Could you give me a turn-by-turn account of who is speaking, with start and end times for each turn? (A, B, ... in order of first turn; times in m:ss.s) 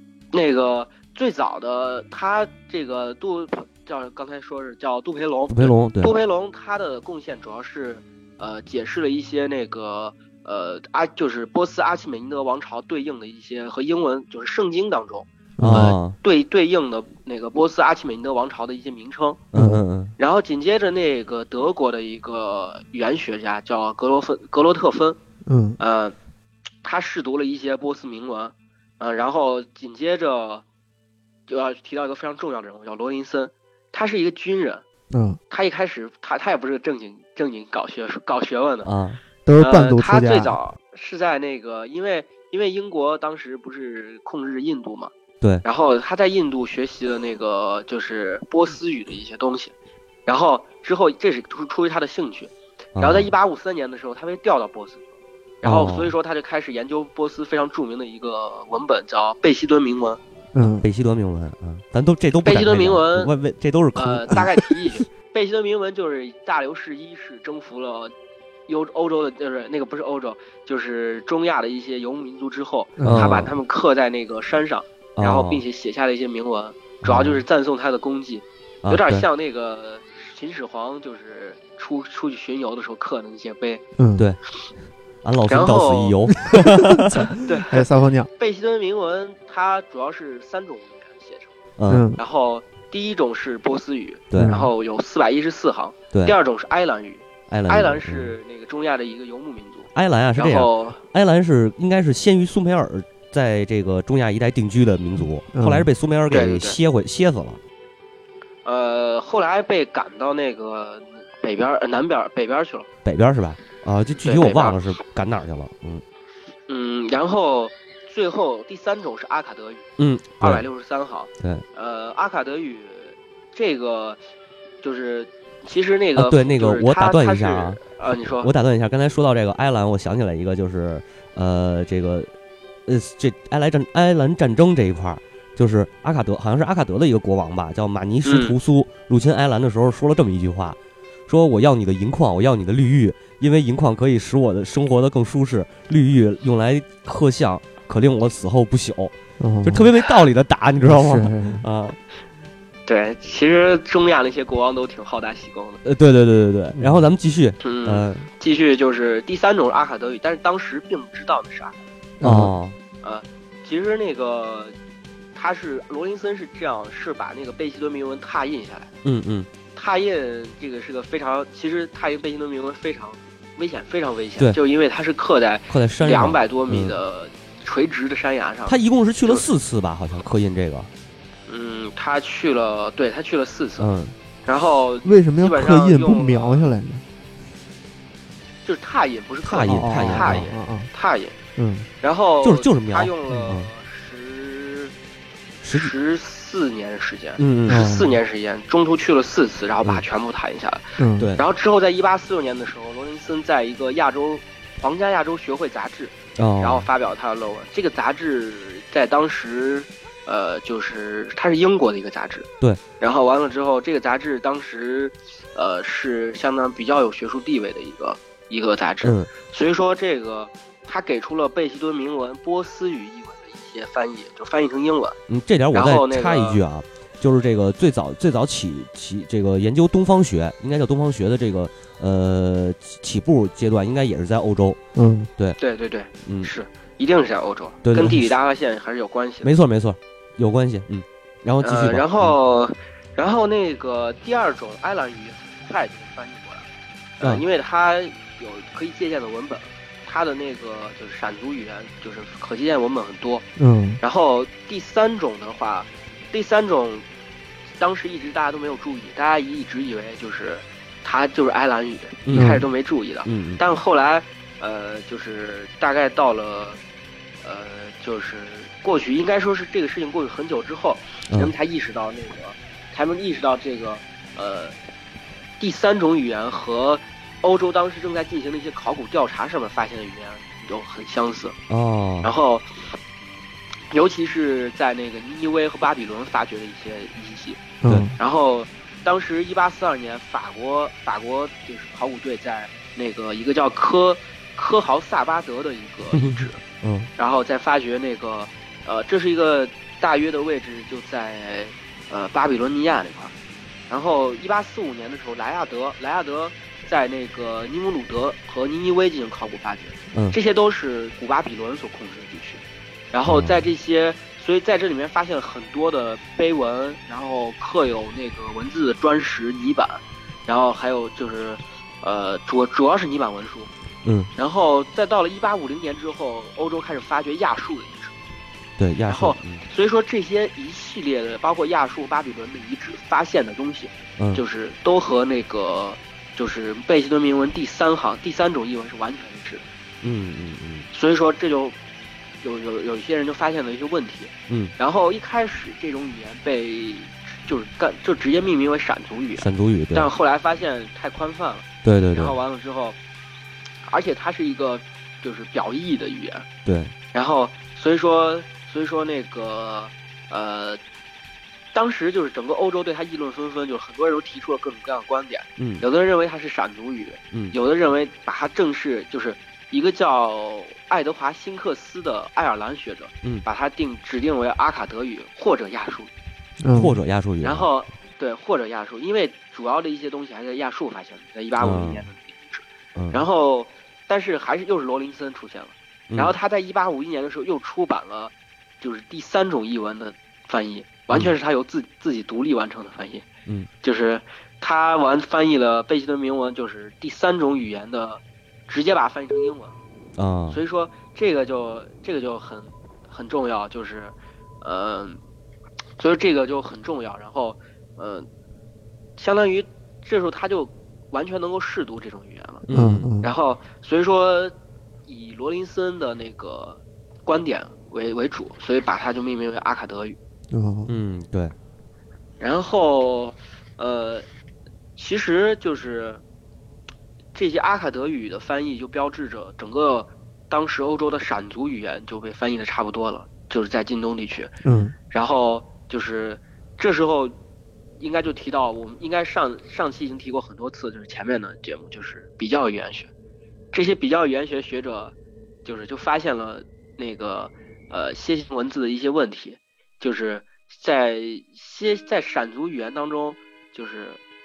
0:00.3-0:19.4 A
0:05.5-0:06.1 B
0:15.6-0:16.0 C
0:15.6-0:16.2 B
0:19.5-0:20.1 B
0:19.5-0:19.8 C
0:20.2-0:25.2 A
0:25.5-0:25.8 C
0:25.8-0:26.2 A
0:26.8-0:30.6 A
0:31.5-0:34.8 A
0:35.1-0:35.4 C
0:35.5-0:38.9 A
0:38.8-0:39.2 B
0:39.4-0:40.6 C
0:39.6-0:45.1 A
0:45.6-0:49.7 A
0:50.3-0:55.1 A
0:53.0-0:53.3 B
0:55.6-1:00.2 A
0:55.6-0:56.2 B
1:00.5-1:00.9 C
1:00.7-1:04.5 B
1:02.4-1:03.3 A
1:04.0-1:08.1 A
1:08.7-1:23.8 A
1:13.0-1:13.4 C
1:13.0-1:13.5 B
1:15.2-1:15.6 B
1:17.0-1:17.4 B
1:18.8-1:19.3 B
1:24.0-1:24.3 C
1:25.2-1:27.4 B
1:25.5-1:26.2 A
1:26.5-1:28.3 C
1:27.4-1:27.8 A
1:28.4-1:31.6 A
1:31.8-1:32.1 B
1:31.9-1:32.2 C
1:32.2-1:41.0 A
1:34.3-1:34.6 B
1:34.4-1:34.7 C
1:37.5-1:38.3 B
1:40.0-1:47.6 B
1:45.5-1:45.9 C
1:46.3-1:46.8 A
1:48.6-1:52.9 A
1:53.0-1:56.0 B
1:54.2-1:54.8 A
1:56.7-1:59.8 A
2:00.0-2:00.6 B
2:00.4-2:04.2 A
2:04.8-2:08.5 A
2:06.2-2:12.3 B
2:12.9-2:32.0 B
2:18.2-2:18.6 A
2:29.4-2:29.9 C
2:30.8-2:31.6 C
2:32.9-2:35.8 A
2:35.8-2:38.3 B
2:36.8-2:37.0 C
2:37.6-2:41.8 A
2:42.2-2:42.5 C
2:42.2-2:42.8 B
2:43.0-2:44.8 A
2:45.4-2:48.9 A
2:49.0-2:49.5 B
2:49.7-2:59.5 A
2:55.7-2:57.0 B
2:58.7-3:00.9 B
3:01.5-3:03.9 A
3:03.8-3:04.2 B
3:04.5-3:06.7 A
3:05.0-3:07.0 C
3:08.6-3:11.4 A
3:09.4-3:10.5 B
3:09.7-3:10.9 C
3:11.6-3:11.9 C
3:12.0-3:14.9 A
3:12.4-3:13.7 B
3:15.6-3:15.9 B
3:15.7-3:32.5 A
3:17.4-3:18.0 B
3:17.7-3:18.1 C
3:21.0-3:21.3 C
3:21.2-3:21.4 B
3:26.4-3:26.9 B
3:33.0-3:45.2 A
3:39.0-3:39.3 B
3:45.3-3:54.8 B
3:45.7-3:46.6 A
3:55.0-3:55.3 C
3:55.6-3:59.5 A
3:56.2-3:56.5 B
3:57.8-3:58.3 B
3:59.4-4:02.4 B
4:01.6-4:06.7 A
4:07.2-4:13.5 A
4:13.6-4:14.0 C
4:14.0-4:17.0 A
4:17.8-4:26.8 A
4:22.3-4:22.6 B
4:22.3-4:22.6 C
4:23.2-4:23.6 B
4:27.4-4:34.8 A
4:35.6-4:41.6 A
4:41.7-4:42.3 B
4:42.2-4:43.0 A
4:43.9-4:47.6 A
4:47.8-4:48.2 C
4:48.2-4:56.6 A
4:56.1-4:57.1 B
4:57.2-5:03.3 A
5:03.9-5:23.7 A
5:13.3-5:13.6 B
5:24.0-5:24.3 B
5:24.4-5:28.2 A
5:28.8-5:29.6 B
5:29.1-5:39.6 A
5:40.0-5:40.9 B
5:40.9-5:41.8 A
5:42.4-5:53.0 A
5:49.4-5:50.1 B
5:51.8-5:52.4 B
5:53.8-5:56.5 A
5:56.6-5:56.9 B
5:57.1-6:00.8 A
6:01.7-6:16.1 A
6:05.6-6:05.8 B
6:16.6-6:17.0 C
6:16.7-6:17.7 B
6:17.4-6:33.3 A
6:21.6-6:22.0 B
6:23.0-6:23.2 B
6:26.1-6:26.4 B
6:33.8-6:39.8 A
6:40.2-6:40.6 B
6:40.5-6:45.2 A
6:46.0-6:48.3 A
6:49.2-6:52.7 A
6:52.7-6:53.1 B
6:52.7-6:53.3 C
6:53.2-6:54.5 A
6:55.1-7:00.2 A
7:00.5-7:01.0 C
7:00.9-7:01.5 B
7:02.4-7:04.2 A
7:05.0-7:06.2 A
7:07.4-7:14.5 A
7:14.6-7:15.0 C
7:15.1-7:17.4 A
7:18.0-7:23.1 A
7:23.7-7:34.2 A